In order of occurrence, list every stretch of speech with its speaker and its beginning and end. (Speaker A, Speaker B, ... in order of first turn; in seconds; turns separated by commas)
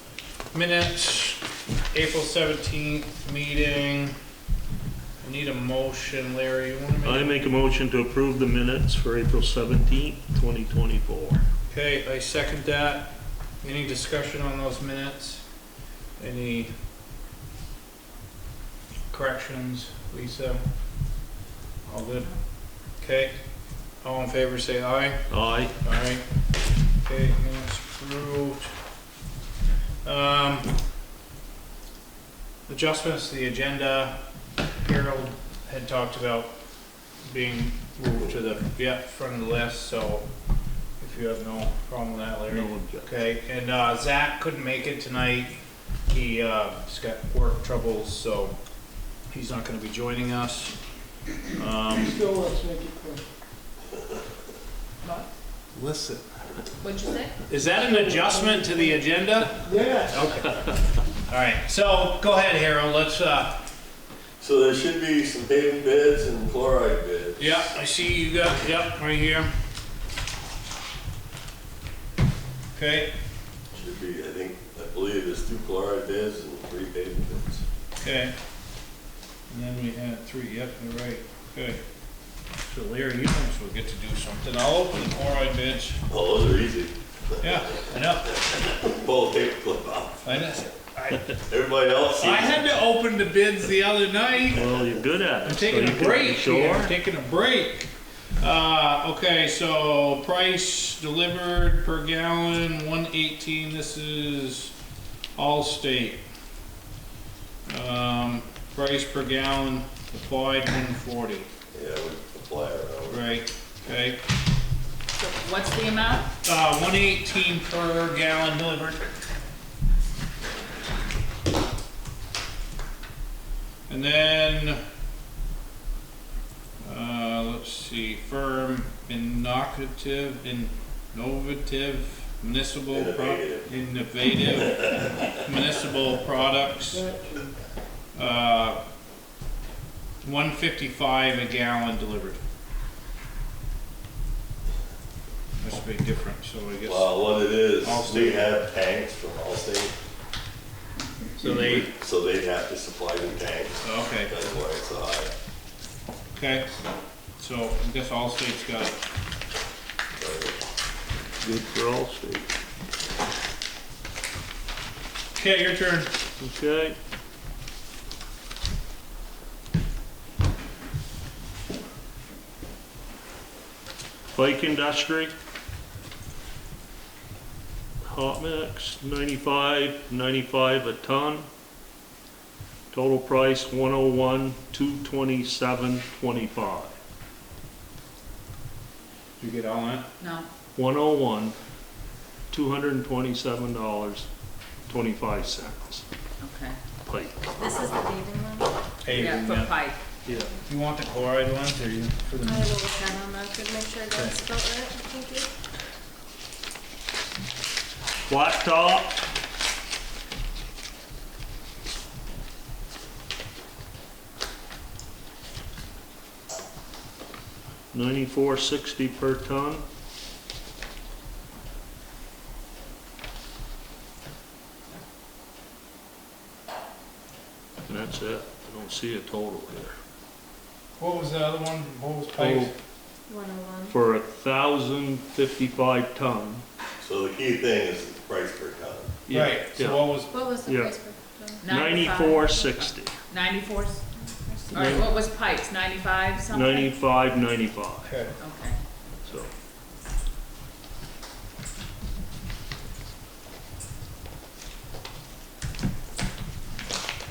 Speaker A: 0.5-4.1, Speaker A: 5.2-7.3, Speaker B: 7.0-11.4, Speaker A: 11.7-15.5, Speaker A: 16.1-16.8, Speaker A: 19.1-21.2, Speaker A: 21.8-26.2, Speaker B: 25.3-25.7, Speaker A: 27.0-28.7, Speaker A: 30.0-30.7, Speaker A: 32.7-34.2, Speaker A: 34.8-36.5, Speaker A: 37.2-40.3, Speaker A: 41.0-48.6, Speaker B: 42.5-43.1, Speaker A: 49.2-50.8, Speaker A: 51.4-52.2, Speaker C: 52.0-53.3, Speaker A: 55.8-56.2, Speaker D: 56.8-57.3, Speaker A: 57.5-63.6, Speaker C: 57.7-59.0, Speaker C: 59.6-60.2, Speaker E: 64.4-67.7, Speaker A: 67.4-69.5, Speaker A: 72.7-73.1, Speaker E: 73.7-77.6, Speaker A: 78.0-78.3, Speaker A: 79.5-81.8, Speaker A: 82.6-86.0, Speaker E: 86.1-90.2, Speaker A: 87.4-88.3, Speaker A: 90.2-91.3, Speaker E: 91.5-92.7, Speaker A: 92.2-94.7, Speaker B: 94.5-96.9, Speaker A: 95.4-104.7, Speaker A: 105.3-106.2, Speaker A: 107.7-111.5, Speaker E: 111.7-113.2, Speaker A: 113.1-114.2, Speaker D: 115.2-116.3, Speaker A: 116.4-119.1, Speaker A: 123.9-124.8, Speaker A: 126.8-137.1, Speaker E: 132.9-133.7, Speaker C: 136.9-137.6, Speaker A: 138.1-138.8, Speaker A: 140.2-142.4, Speaker A: 145.6-148.5, Speaker E: 146.8-149.9, Speaker A: 151.3-151.9, Speaker E: 151.4-155.3, Speaker A: 153.8-154.3, Speaker A: 156.3-156.7, Speaker A: 157.4-159.0, Speaker E: 160.2-160.6, Speaker B: 161.4-162.5, Speaker A: 165.3-166.1, Speaker B: 166.4-167.0, Speaker B: 174.3-175.3, Speaker B: 178.0-181.5, Speaker B: 182.9-186.9, Speaker A: 189.4-190.1, Speaker D: 190.2-190.5, Speaker B: 190.8-191.6, Speaker B: 192.5-194.3, Speaker B: 194.9-196.0, Speaker D: 196.4-196.8, Speaker B: 197.1-197.5, Speaker F: 197.6-198.7, Speaker A: 199.0-199.7, Speaker D: 199.1-200.0, Speaker A: 200.6-202.7, Speaker F: 202.4-205.5, Speaker B: 208.3-209.2, Speaker B: 217.9-219.8, Speaker B: 227.9-229.9, Speaker A: 231.0-232.7, Speaker B: 232.4-232.7, Speaker F: 233.3-234.0, Speaker B: 233.9-236.6, Speaker E: 237.0-239.1, Speaker B: 239.3-240.1, Speaker A: 239.3-240.5, Speaker F: 240.3-241.7, Speaker B: 240.7-240.9, Speaker D: 241.6-244.0, Speaker B: 241.7-243.1, Speaker F: 244.2-244.8, Speaker D: 244.6-246.9, Speaker B: 244.8-245.1, Speaker B: 246.5-248.1, Speaker A: 248.0-248.3, Speaker D: 248.4-248.8, Speaker B: 249.2-249.5